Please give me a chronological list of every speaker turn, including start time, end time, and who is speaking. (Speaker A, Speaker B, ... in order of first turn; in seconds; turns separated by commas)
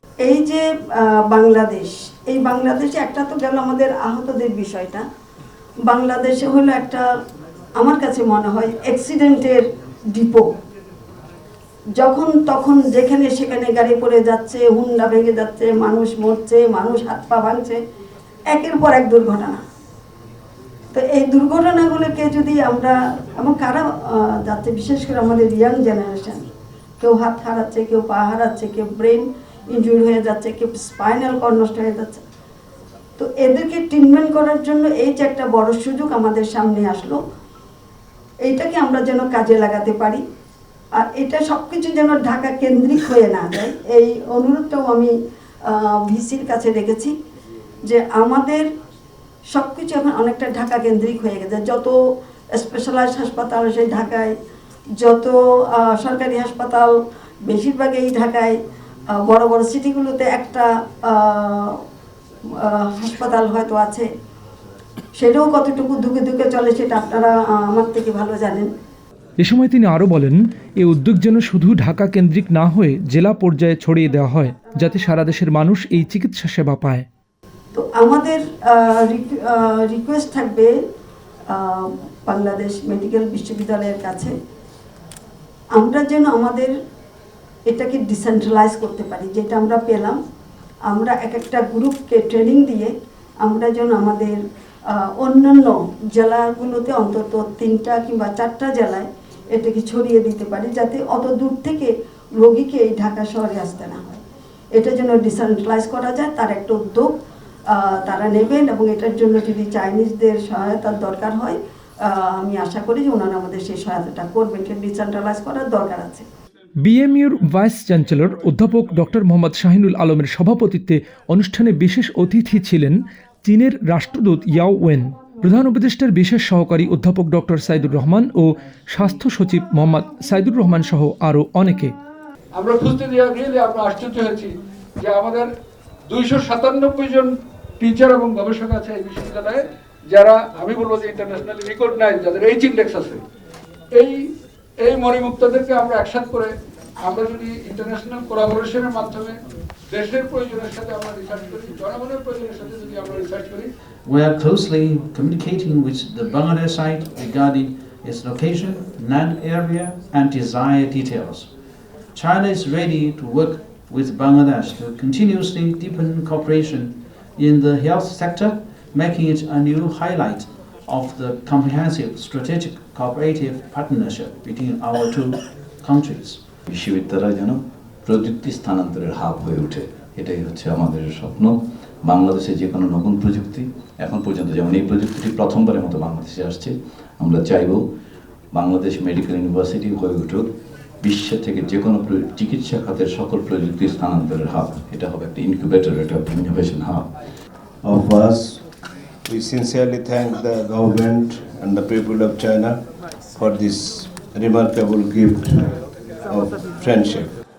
Speaker A: 0.2-5.0, Speaker A: 5.8-7.0, Speaker A: 7.8-9.6, Speaker A: 10.1-10.5, Speaker A: 12.0-17.8, Speaker A: 18.5-19.6, Speaker A: 20.9-26.5, Speaker A: 27.0-32.2, Speaker A: 33.2-37.2, Speaker A: 38.4-40.2, Speaker A: 41.0-45.1, Speaker A: 45.7-47.1, Speaker A: 47.9-48.6, Speaker A: 49.5-51.9, Speaker A: 52.5-54.3, Speaker A: 55.0-56.9, Speaker A: 57.5-58.5, Speaker A: 59.2-61.8, Speaker A: 62.6-64.1, Speaker A: 65.2-68.7, Speaker B: 69.4-77.0, Speaker A: 77.7-80.7, Speaker A: 81.5-84.3, Speaker A: 85.7-86.7, Speaker A: 87.7-90.2, Speaker A: 90.9-92.9, Speaker A: 93.4-94.4, Speaker A: 94.9-104.2, Speaker A: 104.7-107.2, Speaker A: 107.7-116.2, Speaker B: 116.8-122.9, Speaker B: 123.5-128.3, Speaker B: 128.9-131.9, Speaker C: 132.5-135.5, Speaker C: 136.1-143.2, Speaker C: 144.0-144.2, Speaker C: 144.8-146.5, Speaker C: 147.0-149.4, Speaker C: 149.9-153.7, Speaker D: 154.1-161.5, Speaker D: 162.1-176.4, Speaker E: 176.7-187.8, Speaker E: 188.5-190.5, Speaker E: 191.0-197.1, Speaker F: 197.8-198.6, Speaker F: 199.3-202.8, Speaker F: 203.3-207.3